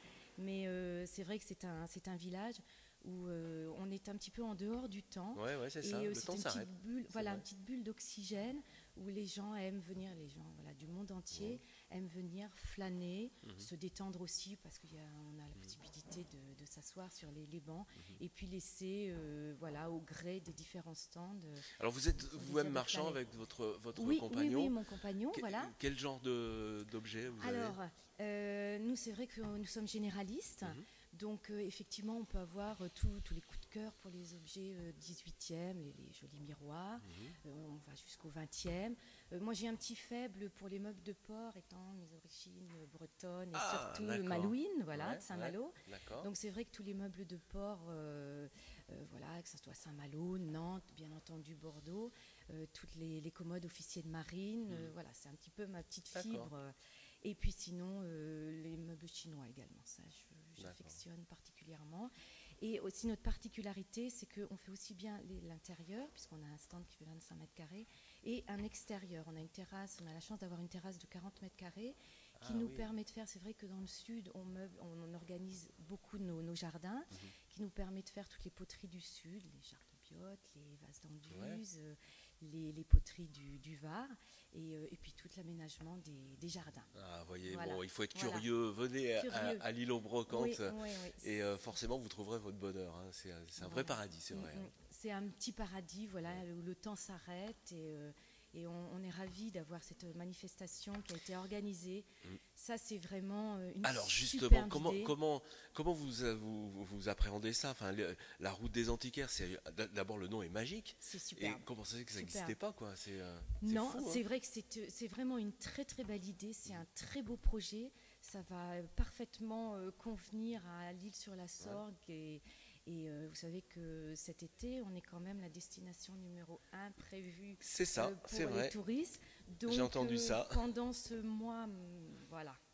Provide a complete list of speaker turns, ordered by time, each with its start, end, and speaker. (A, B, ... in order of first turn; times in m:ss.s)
0:00.4-0:23.2 A
0:05.4-0:07.4 B
0:11.3-0:11.6 B
0:13.4-0:13.7 B
0:21.8-0:24.8 B
0:24.0-0:25.8 A
0:25.3-0:27.8 B
0:27.4-1:26.9 A
0:37.0-0:37.4 B
0:43.5-0:46.3 B
0:54.7-0:54.9 B
0:56.1-0:56.5 B
1:00.6-1:01.0 B
1:12.4-1:12.9 B
1:21.3-1:21.6 B
1:26.9-1:34.7 B
1:27.5-1:28.5 A
1:29.2-1:29.6 A
1:30.3-1:31.3 A
1:33.6-1:45.2 A
1:43.8-1:54.2 B
1:51.0-1:52.6 A
1:53.6-2:12.6 A
2:07.6-2:08.8 B
2:09.7-2:10.6 B